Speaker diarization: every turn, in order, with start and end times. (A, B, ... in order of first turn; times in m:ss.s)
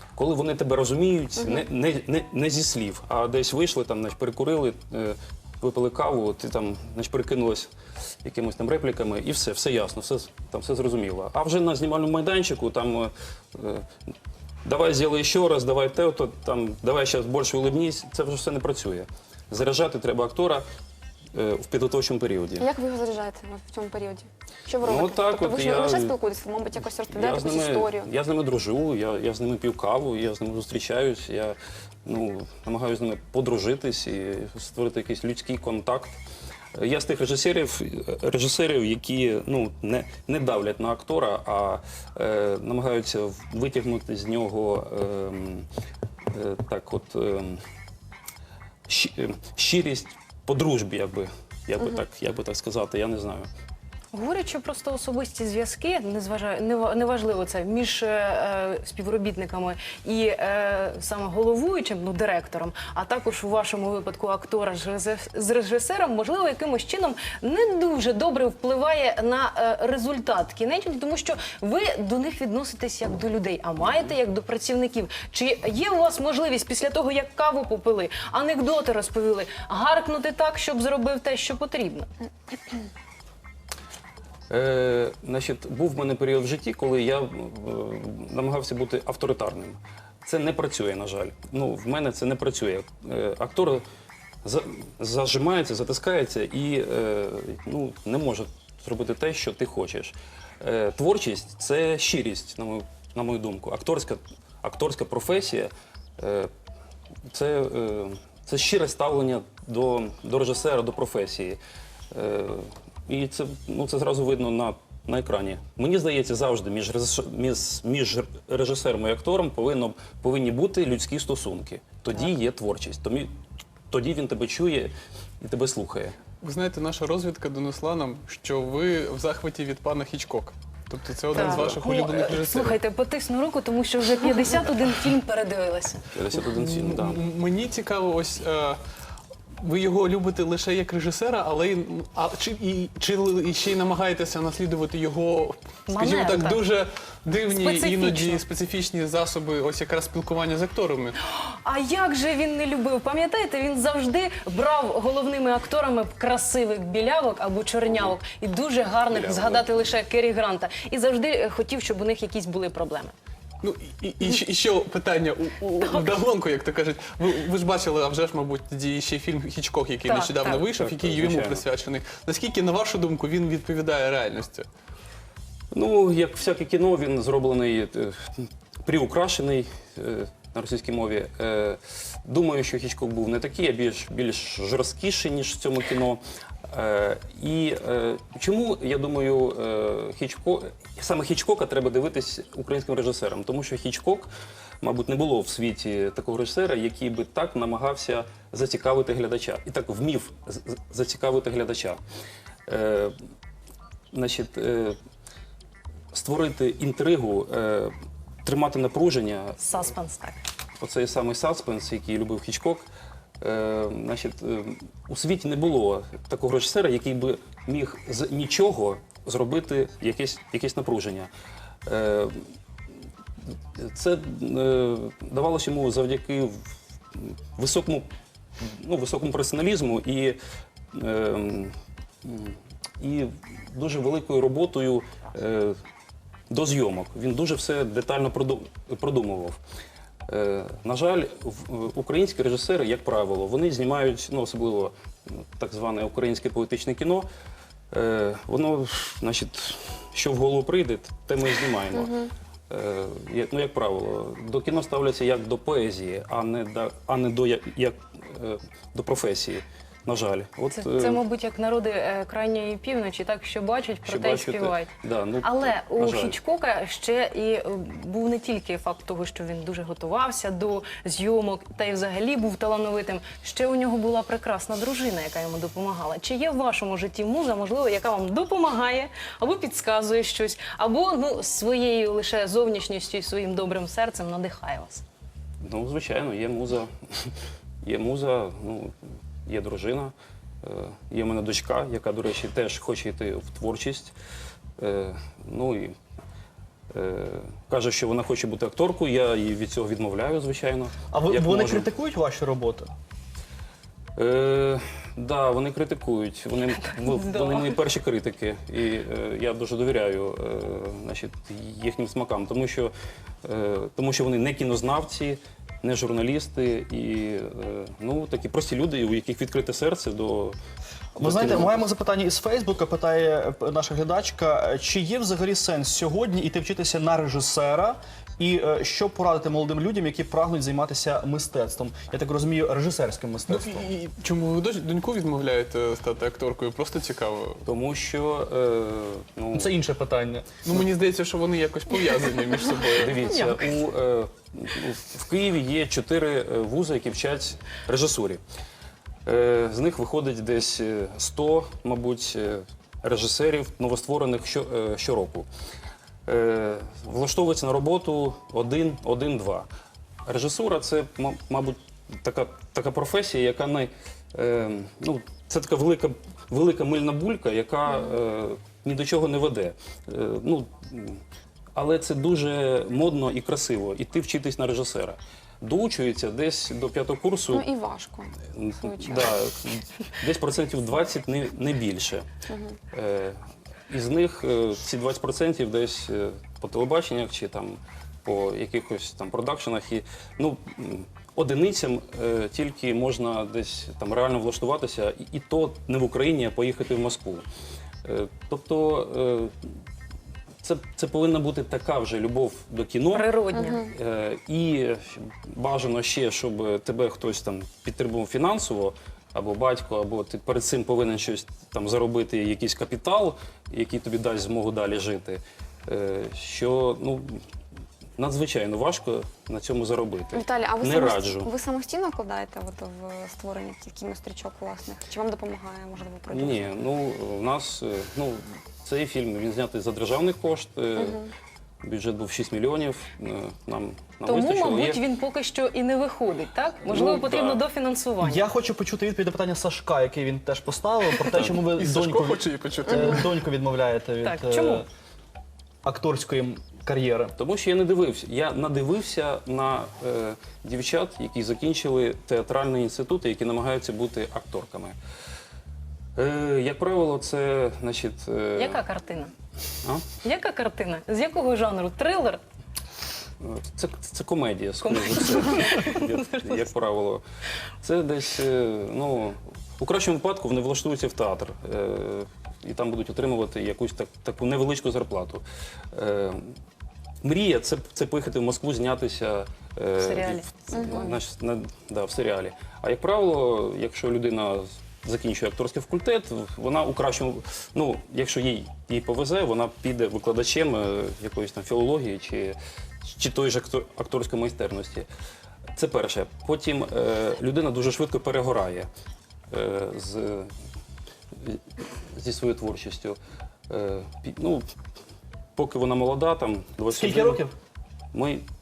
0:00.2-0:07.7 A
0:01.4-0:01.6 B
0:08.2-0:13.8 A
0:14.6-0:20.6 A
0:21.3-0:22.7 A
0:22.6-0:28.1 B
0:24.8-0:26.2 A
0:27.1-0:36.2 A
0:36.7-0:45.7 A
0:46.3-0:47.6 A
0:48.9-0:53.5 A
0:54.1-1:22.1 C
1:24.5-1:33.8 A
1:34.4-1:46.5 A
1:47.3-1:51.6 A
1:52.1-2:03.3 A
2:03.9-2:06.2 A
2:06.4-2:12.8 D
2:11.3-2:16.0 C
2:11.4-2:11.7 A
2:16.1-2:17.2 A
2:16.4-2:18.8 D
2:19.6-2:31.2 D
2:25.9-2:26.6 C
2:27.5-2:28.4 C
2:31.4-2:43.1 C
2:39.1-2:39.7 A
2:43.6-2:54.7 D
2:45.8-2:46.1 C
2:50.0-2:50.6 C
2:50.7-2:51.6 A
2:55.7-3:14.3 A
3:14.8-3:22.0 A
3:22.7-3:23.1 A
3:24.1-3:25.0 A
3:26.1-3:27.9 A
3:28.4-3:29.6 A
3:29.6-3:30.4 C
3:30.8-3:32.8 A
3:33.4-3:41.3 A
3:41.8-3:42.5 A
3:43.8-3:48.1 A
3:48.6-3:50.4 A
3:50.9-3:55.8 A
3:56.5-3:59.6 A
4:00.3-4:07.3 A
4:07.9-4:12.1 A
4:11.9-4:12.3 B
4:12.7-4:21.2 A
4:20.7-4:45.0 C
4:24.0-4:26.4 A
4:45.6-4:47.3 A
4:47.8-4:48.9 A
4:49.4-4:54.1 A
4:54.8-4:55.9 A
4:56.9-5:01.9 A
5:01.1-5:02.9 E
5:04.2-5:12.9 A
5:06.7-5:07.8 C
5:13.4-5:20.6 A
5:21.2-5:33.9 E
5:21.2-5:21.9 A
5:33.5-5:37.6 D
5:37.6-5:39.7 A
5:39.5-5:40.5 E
5:40.6-5:43.3 D
5:43.0-5:48.4 A
5:43.2-5:43.7 C
5:49.2-5:55.5 A
5:56.3-5:59.7 A
6:00.2-6:11.2 A
6:07.9-6:08.1 B
6:11.8-6:17.6 A
6:17.5-6:19.3 B
6:18.5-6:22.3 A
6:22.5-6:22.8 B
6:22.9-6:37.4 A
6:38.0-6:39.5 A
6:40.6-6:57.4 A
6:43.1-6:43.8 C
6:43.5-6:43.9 B
6:58.2-7:01.5 A
7:00.3-7:06.8 B
7:06.3-7:11.2 A
7:11.0-7:11.3 B
7:11.8-7:15.0 A
7:14.2-7:18.4 C
7:16.9-7:17.6 A
7:18.2-7:24.8 E
7:21.6-7:23.3 D
7:24.2-7:24.8 C
7:25.8-7:27.3 E
7:27.4-7:35.0 A
7:36.2-7:38.8 A
7:38.6-7:39.3 C
7:39.8-7:40.1 A
7:40.2-7:42.4 C
7:43.4-7:47.2 A
7:44.8-7:46.6 C
7:47.8-7:56.6 A
7:57.2-8:15.1 A
8:00.0-8:00.9 C
8:00.7-8:01.0 B
8:15.8-8:18.9 A
8:19.5-8:20.5 A
8:22.1-8:23.2 A
8:23.7-8:24.6 A
8:25.6-8:27.4 A
8:26.9-8:27.5 E
8:28.1-8:28.4 A